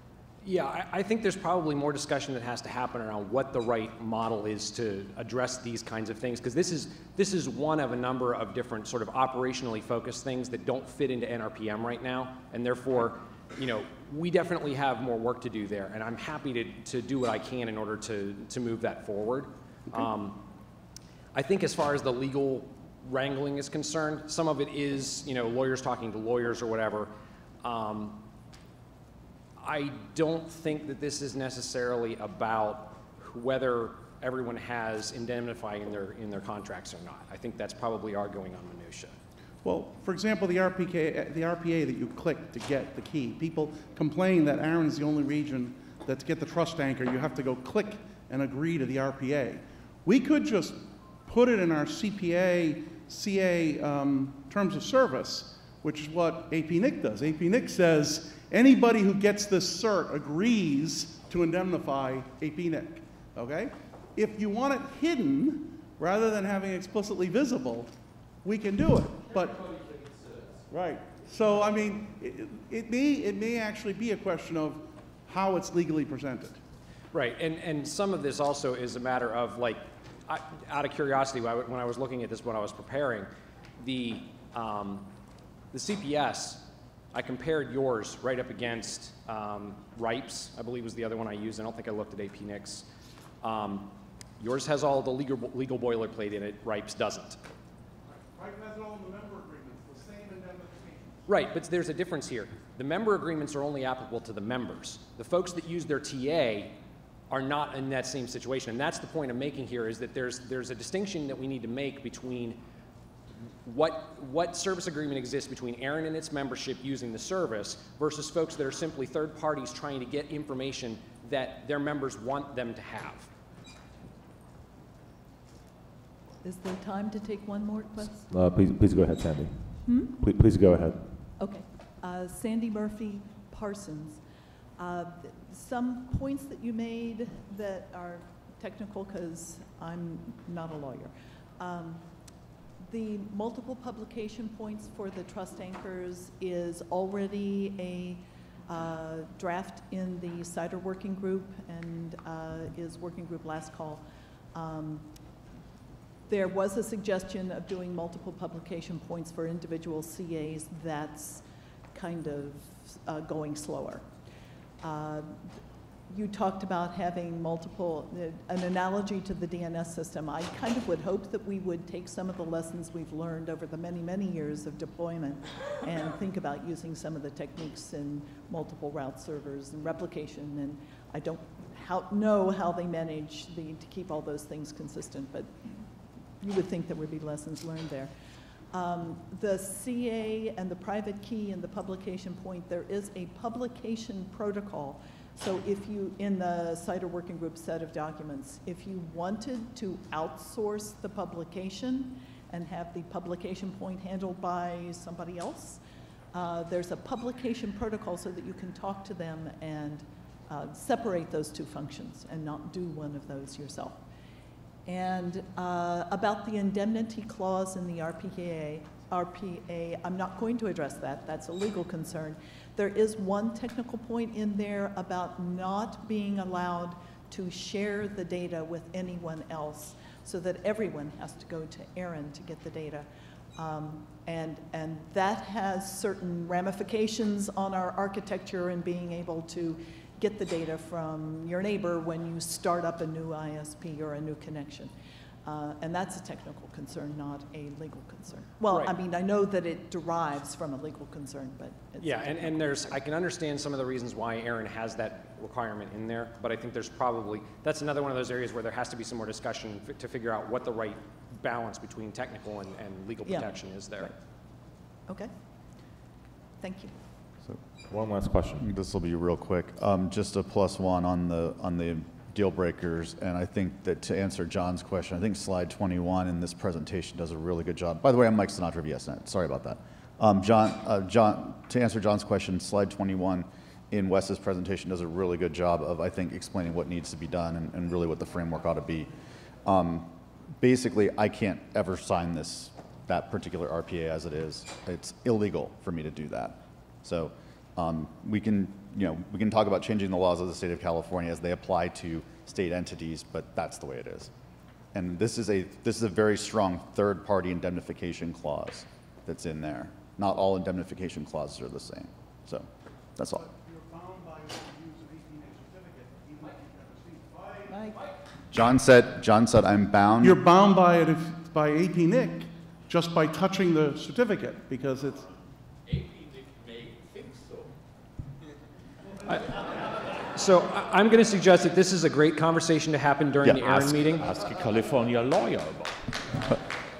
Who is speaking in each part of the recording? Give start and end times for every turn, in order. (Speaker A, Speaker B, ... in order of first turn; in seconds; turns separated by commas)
Speaker A: 0.4-20.5, Speaker A: 21.3-28.3, Speaker A: 29.6-39.1, Speaker B: 39.6-67.9, Speaker B: 68.4-70.0, Speaker B: 70.7-76.6, Speaker A: 77.1-85.1, Speaker A: 85.7-92.9, Speaker A: 93.4-97.4, Speaker B: 98.0-101.2, Speaker A: 101.3-112.6, Speaker A: 113.6-123.3, Speaker C: 126.4-128.3, Speaker D: 128.3-131.3, Speaker C: 129.8-130.2, Speaker C: 131.4-134.2, Speaker C: 134.8-142.1, Speaker C: 142.8-155.1, Speaker C: 156.3-164.0, Speaker C: 164.8-165.4, Speaker C: 166.1-185.8, Speaker C: 186.4-188.1, Speaker C: 188.7-205.8, Speaker C: 206.3-214.0, Speaker C: 214.8-244.9, Speaker C: 245.4-252.5, Speaker A: 248.7-248.9, Speaker A: 252.0-264.1, Speaker C: 263.2-264.1, Speaker C: 266.6-266.9, Speaker D: 267.9-268.7, Speaker E: 268.6-289.1, Speaker E: 289.6-304.3, Speaker E: 304.9-313.4, Speaker B: 313.3-318.0, Speaker C: 317.7-318.0, Speaker E: 318.5-320.4, Speaker B: 320.2-325.3, Speaker F: 326.2-327.4, Speaker A: 329.2-334.3, Speaker F: 333.6-336.2